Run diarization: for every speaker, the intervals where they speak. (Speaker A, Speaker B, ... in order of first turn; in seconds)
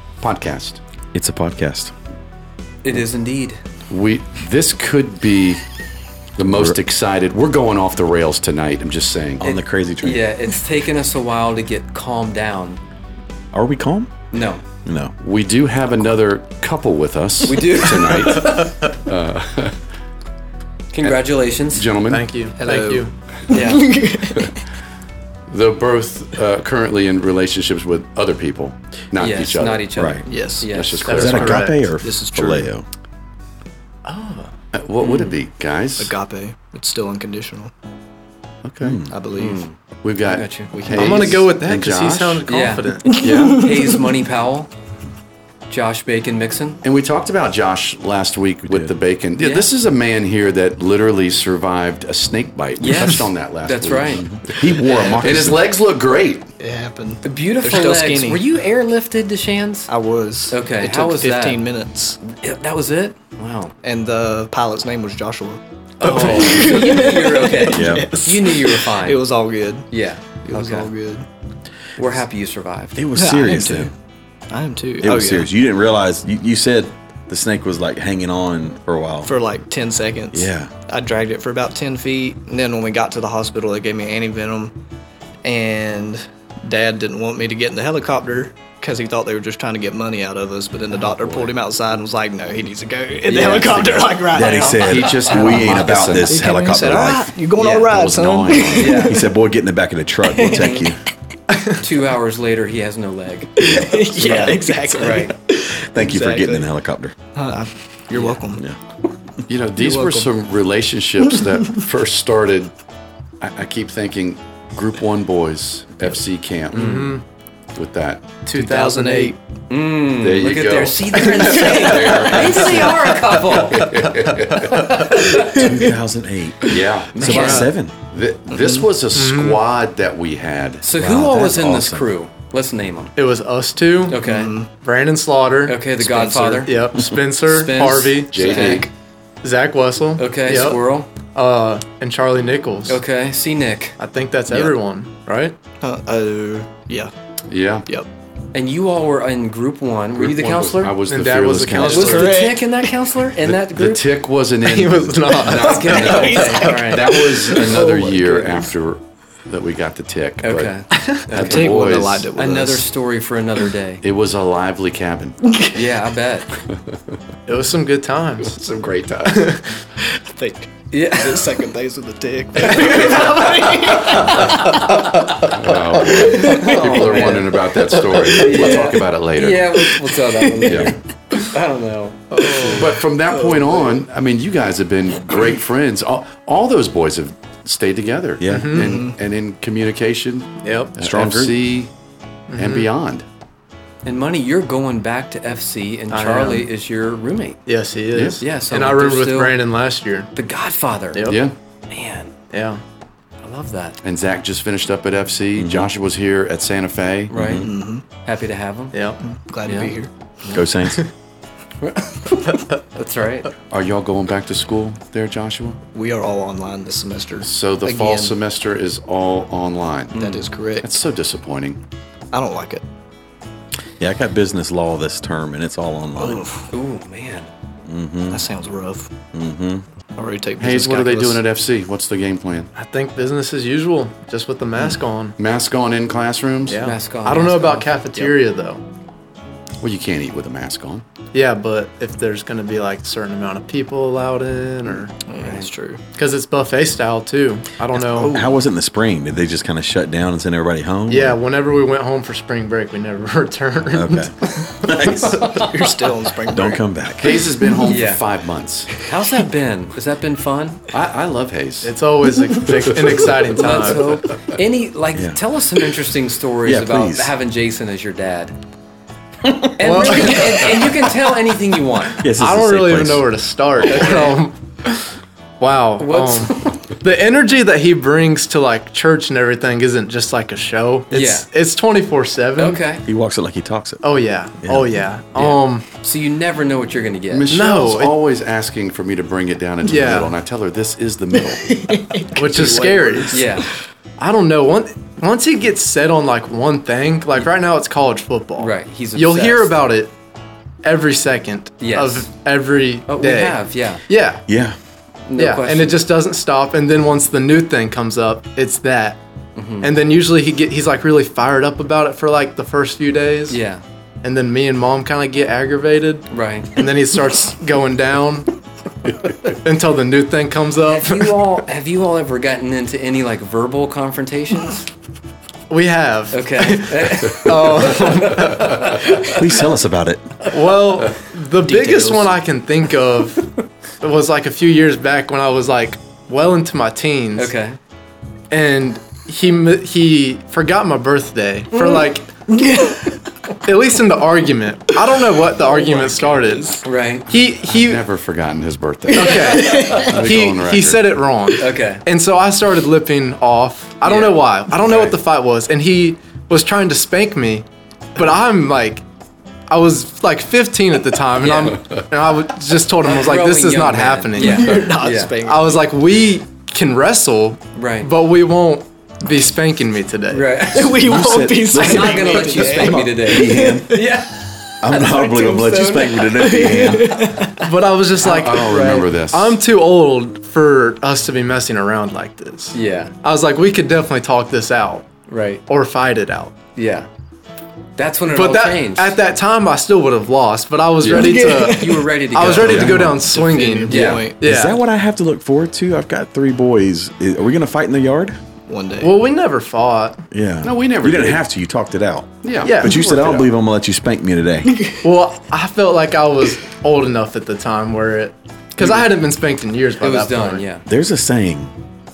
Speaker A: 0.2-0.8, 3.9-5.6, 6.4-9.4, 15.2-19.8, 21.0-22.2, 25.5-29.9, 30.7-31.7, 34.7-36.1, 38.6-39.0, 40.0-42.4, 43.1-43.9, 46.8-56.5, 93.5-96.4, 97.8-99.1, 109.5-112.7, 113.4-117.2, 117.7-118.3, 120.2-125.0, 126.6-130.9, 138.3-138.9, 147.5-147.9, 150.2-152.4, 153.4-162.3, 164.0-165.4, 168.4-169.5, 175.5-179.9, 180.6-180.9, 182.8-191.9, 192.5-193.2, 198.1-198.4, 201.3-201.5, 204.0-207.4, 213.7-215.8, 217.4-220.2, 220.8-221.8, 230.6-232.7, 235.4-236.8, 239.8-241.0, 257.2-258.9, 260.9-261.9, 262.7-263.0, 287.3-291.7, 347.7-351.1, 378.2-379.6, 391.0-391.4, 392.6-393.0, 393.9-394.2, 400.6-401.4, 402.4-403.5
Speaker B: 1.1-1.9, 6.5-6.8, 9.4-10.2, 13.5-14.2, 14.8-15.2, 30.0-30.2, 31.1-32.9, 38.8-39.1, 54.3-55.7, 67.7-68.1, 73.0-73.9, 75.0-79.3, 80.3-80.7, 94.3-97.3, 99.0-101.0, 104.3-104.6, 105.7-107.2, 125.4-127.9, 130.9-132.1, 188.4-188.8, 191.0-191.6, 205.6-205.9, 207.3-207.7, 210.5-211.1, 224.0-226.4, 227.9-228.5, 229.3-229.8, 248.2-251.4, 253.9-255.7, 256.5-257.4, 266.6-267.3, 272.2-273.3, 283.1-284.0, 284.6-285.0, 304.5-304.8, 329.2-330.3, 370.9-374.1, 374.8-377.3, 392.7-393.0, 394.4-398.4, 400.3-404.9, 410.9-411.7
Speaker C: 2.8-3.6, 9.4-12.8, 14.3-14.6, 17.4-18.5, 20.9-21.9, 23.5-24.1, 29.2-31.3, 35.0-35.3, 39.4-40.7, 42.5-44.7, 45.7-46.8, 49.4-49.7, 52.8-54.3, 54.9-55.2, 57.2-59.9, 60.5-61.6, 62.2-63.7, 66.0-69.2, 69.9-70.9, 72.0-73.0, 95.3-95.7, 97.6-97.9, 98.7-99.3, 100.5-100.9, 101.7-105.3, 119.7-124.1, 124.6-125.7, 127.1-127.7, 130.8-133.2, 134.1-134.5, 135.7-138.9, 140.2-141.1, 142.9-144.0, 148.5-151.0, 151.8-154.0, 155.6-158.7, 160.4-164.0, 165.7-166.5, 170.9-171.5, 172.8-173.2, 176.3-177.6, 178.2-182.9, 194.1-197.6, 198.4-199.6, 200.3-201.4, 201.9-202.3, 203.4-204.0, 207.3-207.7, 208.2-209.0, 209.7-210.7, 211.8-213.5, 220.1-220.4, 226.7-227.5, 236.8-237.9, 245.4-245.7, 248.0-248.5, 257.8-258.2, 259.0-260.8, 263.5-268.6, 269.8-272.2, 273.9-274.4, 276.0-276.9, 281.1-281.5, 282.6-283.0, 285.4-287.5, 293.3-293.7, 298.6-299.8, 301.8-302.3, 303.1-304.0, 305.3-306.1, 309.6-309.9, 313.5-313.8, 316.3-316.7, 320.9-324.9, 326.3-329.4, 337.4-337.8, 346.8-347.3, 351.6-352.0, 354.0-355.2, 361.4-361.8, 363.0-365.4, 367.8-368.1, 370.3-371.0, 371.7-376.3, 377.2-377.7, 378.2-379.1, 382.7-383.1, 385.3-385.6, 386.8-387.1, 388.0-389.2, 391.7-393.2, 393.9-394.2, 410.0-410.9
Speaker D: 22.1-23.1, 31.1-31.9, 34.1-34.5, 40.9-43.3, 116.7-117.2, 118.5-119.3, 129.2-129.6, 133.2-135.8, 136.6-138.9, 139.4-140.8, 141.3-143.0, 144.0-145.6, 151.1-152.5, 154.6-156.8, 167.5-168.6, 169.3-169.7, 176.5-176.9, 188.5-188.9, 190.6-190.9, 192.5-192.9, 196.1-196.7, 197.7-200.3, 201.1-201.4, 202.5-202.8, 208.9-209.2, 232.8-235.4, 236.7-238.8, 241.3-245.1, 246.2-248.3, 251.1-255.5, 261.8-264.1, 269.8-271.1, 272.3-282.8, 284.0-285.9, 287.5-288.2, 289.8-290.3, 292.3-293.4, 294.2-300.1, 300.8-304.5, 305.4-309.2, 309.8-313.6, 314.2-318.5, 319.4-321.4, 325.7-329.4, 330.5-337.5, 338.5-342.3, 343.6-348.0, 349.1-357.6, 358.2-359.0, 359.7-370.5, 377.6-385.1, 385.7-386.6, 388.3-394.8, 399.0-400.2, 402.6-403.0, 405.0-410.6
Speaker E: 22.6-24.6, 30.3-30.7, 32.0-32.7, 36.0-37.7, 39.1-39.6, 40.7-41.5, 43.1-44.0, 56.6-58.4, 59.9-62.2, 63.8-69.9, 70.5-71.3, 73.2-73.9, 74.5-75.5, 79.2-84.7, 85.4-99.2, 100.3-100.7, 103.6-106.7, 107.3-108.6, 109.8-110.3, 118.5-119.4, 125.6-125.9, 127.2-127.6, 128.5-128.8, 134.2-134.7, 136.0-136.7, 138.4-138.7, 144.5-144.8, 145.8-147.1, 152.0-152.9, 156.1-157.6, 161.3-162.9, 170.0-175.2, 176.0-177.4, 182.3-183.9, 188.8-189.1, 207.6-208.1, 209.2-210.1, 215.9-218.3, 220.2-220.9, 222.3-222.8, 226.2-226.7, 228.3-229.1, 230.2-231.4, 245.3-246.0, 255.3-256.8, 291.5-293.6, 331.7-332.3, 342.5-343.2, 345.4-346.8, 349.2-350.2, 364.4-365.8, 370.7-374.1, 376.2-377.6, 391.0-394.4, 398.7-399.1, 404.7-405.0